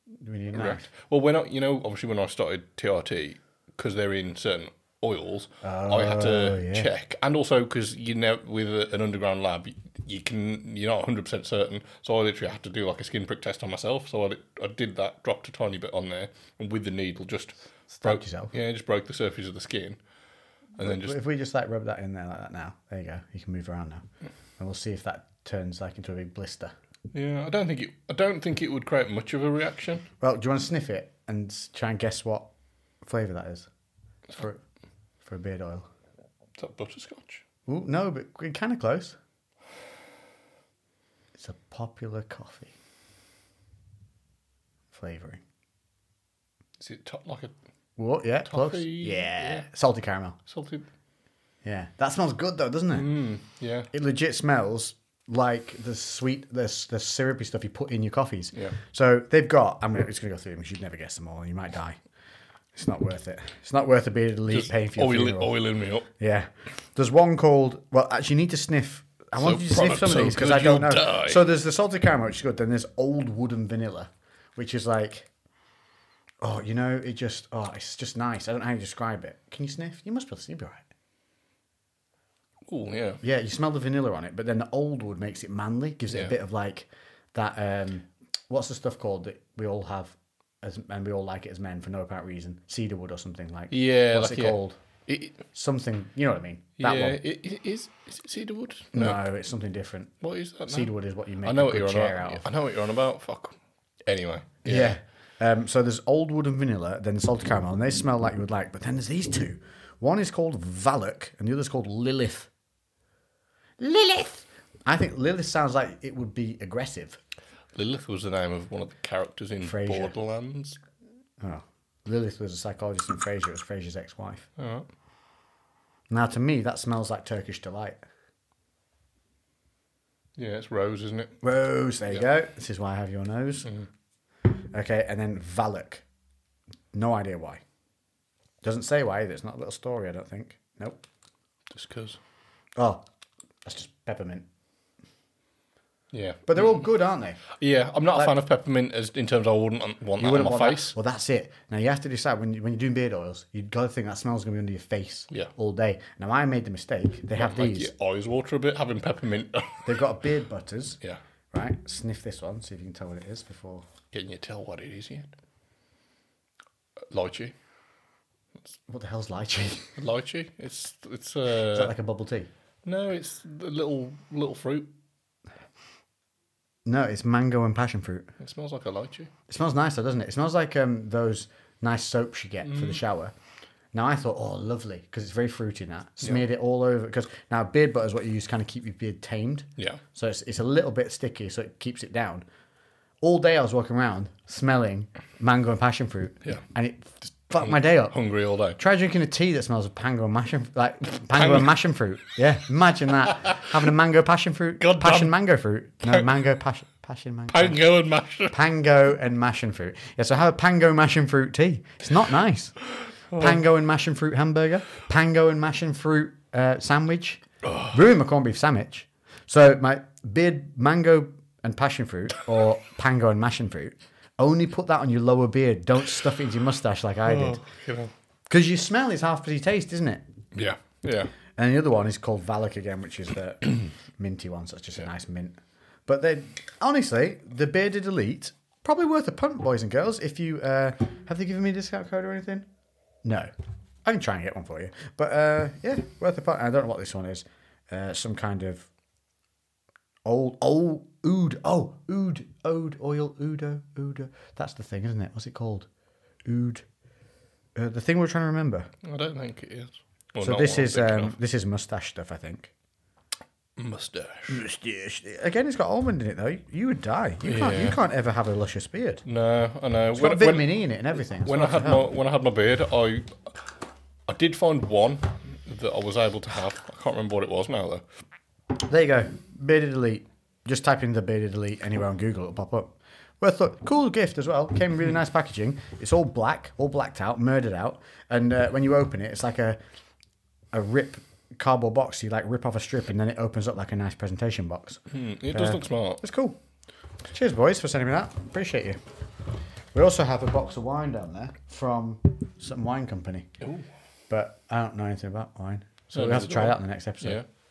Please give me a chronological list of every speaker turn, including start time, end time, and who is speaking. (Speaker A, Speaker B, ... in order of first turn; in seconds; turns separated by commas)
Speaker A: 0.2-0.9, Speaker B: 0.5-20.0, Speaker A: 5.6-6.9, Speaker A: 17.9-18.5, Speaker B: 20.8-21.2, Speaker A: 20.8-24.0, Speaker A: 24.6-26.7, Speaker B: 27.1-30.1, Speaker A: 30.2-32.5, Speaker A: 33.0-33.7, Speaker A: 34.3-34.6, Speaker A: 35.2-35.9, Speaker B: 36.6-37.4, Speaker A: 37.7-39.2, Speaker A: 41.4-42.7, Speaker A: 44.9-45.4, Speaker B: 46.8-47.5, Speaker A: 48.0-50.4, Speaker B: 48.5-49.6, Speaker B: 50.5-50.9, Speaker A: 51.6-53.2, Speaker B: 52.9-53.9, Speaker A: 53.9-62.0, Speaker A: 62.7-65.5, Speaker B: 64.5-66.1, Speaker A: 66.2-75.3, Speaker B: 69.4-71.4, Speaker A: 76.4-80.8, Speaker B: 82.7-83.2, Speaker A: 83.2-94.8, Speaker B: 93.7-95.4, Speaker A: 95.5-97.2, Speaker B: 96.8-99.2, Speaker A: 98.9-100.1, Speaker B: 100.2-105.0, Speaker A: 100.7-102.5, Speaker A: 104.7-112.5, Speaker A: 113.8-117.2, Speaker B: 117.7-120.8, Speaker A: 119.6-120.1, Speaker A: 121.4-124.5, Speaker B: 124.6-124.9, Speaker A: 126.1-128.0, Speaker B: 130.4-131.4, Speaker A: 131.4-133.7, Speaker A: 134.5-136.0, Speaker A: 136.9-137.6, Speaker A: 138.6-141.0, Speaker B: 141.7-142.2, Speaker A: 142.8-143.0, Speaker A: 143.6-144.4, Speaker B: 146.1-146.8, Speaker A: 146.5-147.4, Speaker B: 147.5-150.9, Speaker A: 150.2-157.9, Speaker B: 157.3-159.9, Speaker A: 159.8-161.0, Speaker A: 161.5-163.8, Speaker B: 164.1-165.3, Speaker B: 167.1-167.5, Speaker A: 168.9-170.0, Speaker B: 170.0-171.9, Speaker A: 171.7-172.5, Speaker B: 172.8-174.9, Speaker A: 176.8-178.3, Speaker B: 178.4-179.3, Speaker A: 179.5-183.3, Speaker B: 182.7-183.0, Speaker A: 183.9-192.4, Speaker A: 193.2-198.1, Speaker B: 197.6-198.8, Speaker A: 198.8-207.8, Speaker B: 201.3-201.7, Speaker B: 204.8-205.3, Speaker B: 207.5-208.6, Speaker A: 208.5-212.8, Speaker B: 213.3-213.6, Speaker A: 213.3-227.6, Speaker B: 217.6-217.9, Speaker B: 227.2-228.1, Speaker A: 228.5-230.2, Speaker B: 230.5-231.3, Speaker A: 231.6-242.7, Speaker A: 243.2-243.5, Speaker A: 244.0-248.9, Speaker A: 250.2-255.9, Speaker A: 256.4-256.8, Speaker A: 257.7-258.9, Speaker B: 259.0-261.4, Speaker A: 260.4-262.7, Speaker B: 263.8-264.6, Speaker A: 264.5-269.2, Speaker B: 267.4-268.0, Speaker B: 269.2-270.7, Speaker A: 270.1-272.1, Speaker B: 271.4-273.5, Speaker B: 274.3-278.0, Speaker A: 278.7-289.8, Speaker A: 290.7-296.6, Speaker B: 295.1-296.2, Speaker A: 297.3-299.0, Speaker A: 299.9-303.5, Speaker B: 303.6-303.9, Speaker A: 304.3-307.4, Speaker B: 306.1-307.4